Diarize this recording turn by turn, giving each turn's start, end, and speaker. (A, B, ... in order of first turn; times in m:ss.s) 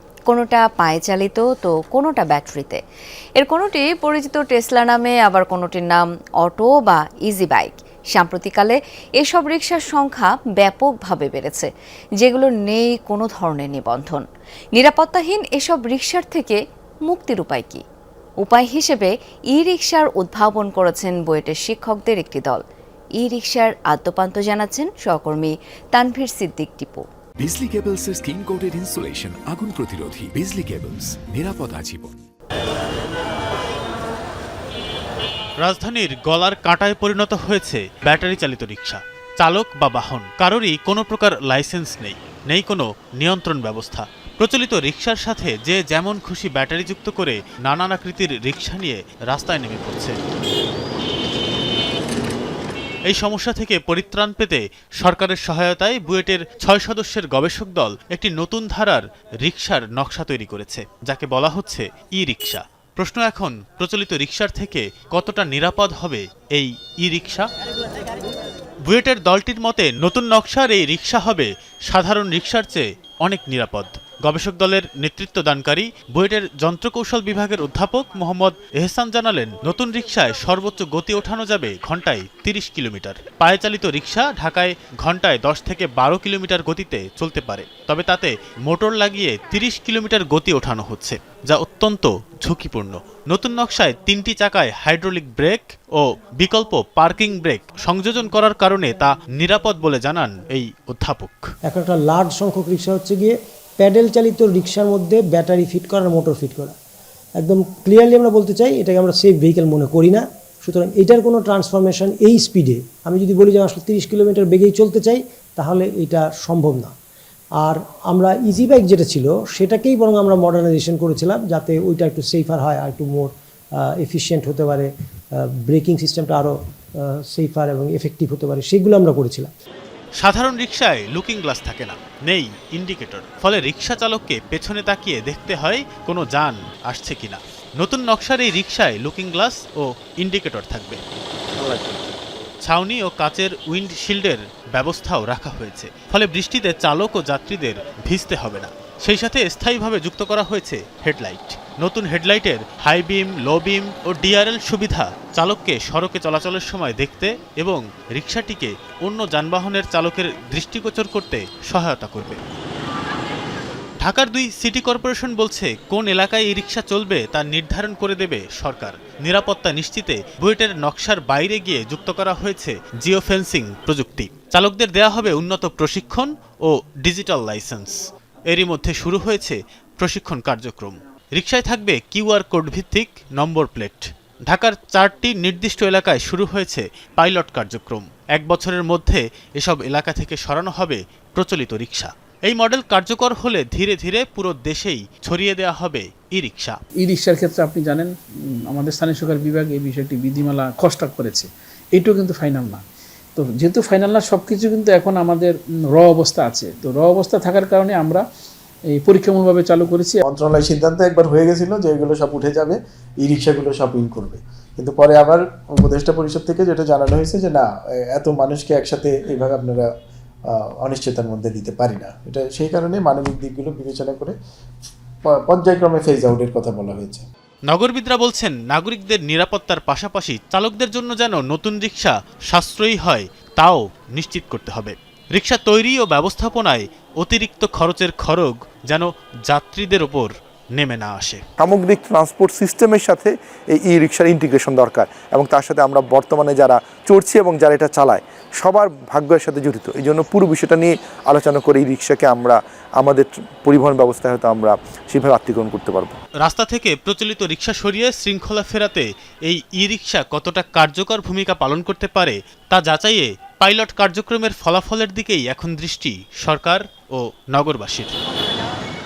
0:00.3-0:02.8 A
0:03.4-0:11.7 A
0:12.2-0:17.8 A
0:18.4-0:22.6 A
0:23.2-0:27.0 A
0:27.4-0:32.2 B
0:35.6-0:50.2 C
0:53.1-1:07.5 C
1:08.9-1:41.4 C
1:41.7-1:46.8 D
1:47.4-1:56.9 D
1:57.6-2:03.3 D
2:03.8-2:04.9 D
2:05.4-2:06.6 D
2:07.3-2:09.5 D
2:10.2-2:21.0 C
2:22.6-2:42.4 C
2:44.0-3:16.8 C
3:17.0-3:18.1 E
3:18.7-3:22.8 E
3:23.4-3:28.2 E
3:28.9-3:30.2 E
3:30.3-3:39.9 F
3:40.5-3:44.4 F
3:45.3-3:47.3 F
3:47.7-4:01.4 C
4:01.6-4:16.2 G
4:16.4-4:28.2 C